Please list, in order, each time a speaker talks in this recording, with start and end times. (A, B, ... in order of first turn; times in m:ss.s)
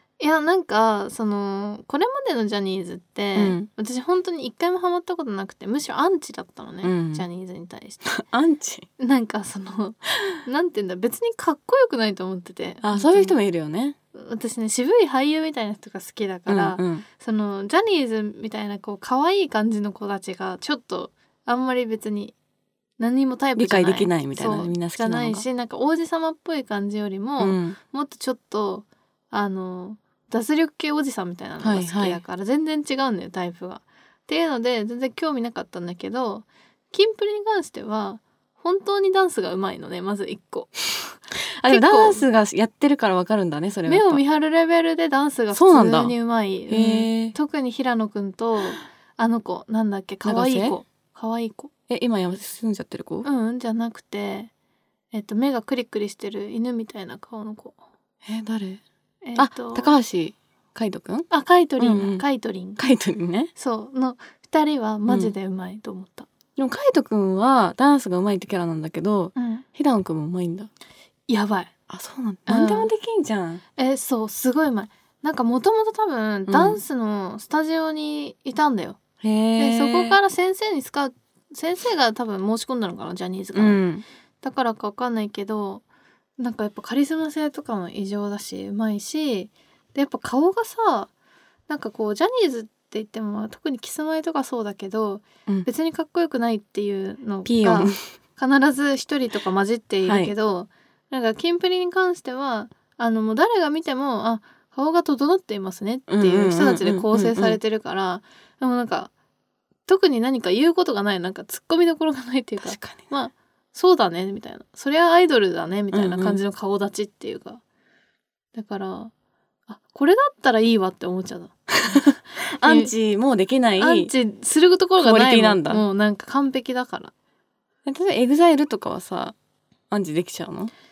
0:00.2-0:08.0 A
0:03.4-0:03.7 B
0:06.8-0:07.2 B
0:08.0-0:08.9 B
0:09.0-0:13.4 A
0:12.8-0:14.0 B
0:14.1-0:22.3 A
0:16.5-0:17.0 B
0:23.0-0:42.2 A
0:23.6-0:25.4 B
0:27.4-0:27.8 B
0:31.6-0:32.2 B
0:41.6-0:44.2 B
0:43.9-0:51.7 A
0:45.5-0:46.2 B
0:46.7-0:47.3 B
0:50.2-0:50.8 B
0:51.9-0:53.3 B
0:53.2-0:54.5 A
0:55.1-0:57.8 A
0:58.2-0:58.8 B
0:59.2-0:59.9 A
0:59.4-1:02.2 B
1:01.3-1:02.8 A
1:02.8-1:03.5 B
1:03.6-1:06.3 A
1:05.1-1:05.3 B
1:06.6-1:10.7 B
1:09.4-1:09.6 A
1:11.3-1:11.7 A
1:11.9-1:13.6 B
1:12.5-1:12.9 A
1:13.8-1:19.0 A
1:16.5-1:16.8 B
1:19.2-1:20.2 B
1:19.6-1:23.8 A
1:23.5-1:24.0 B
1:24.4-1:25.8 A
1:26.4-1:31.1 A
1:31.7-1:49.1 A
1:37.4-1:38.0 B
1:40.0-1:40.3 B
1:46.1-1:47.6 B
1:49.8-1:57.6 A
1:52.6-1:53.1 B
1:55.9-1:56.4 B
1:58.5-1:59.1 A
1:59.7-2:02.1 A
2:01.9-2:04.1 B
2:02.6-2:02.9 A
2:03.8-2:07.1 A
2:05.0-2:05.8 B
2:07.8-2:09.4 B
2:09.9-2:10.7 B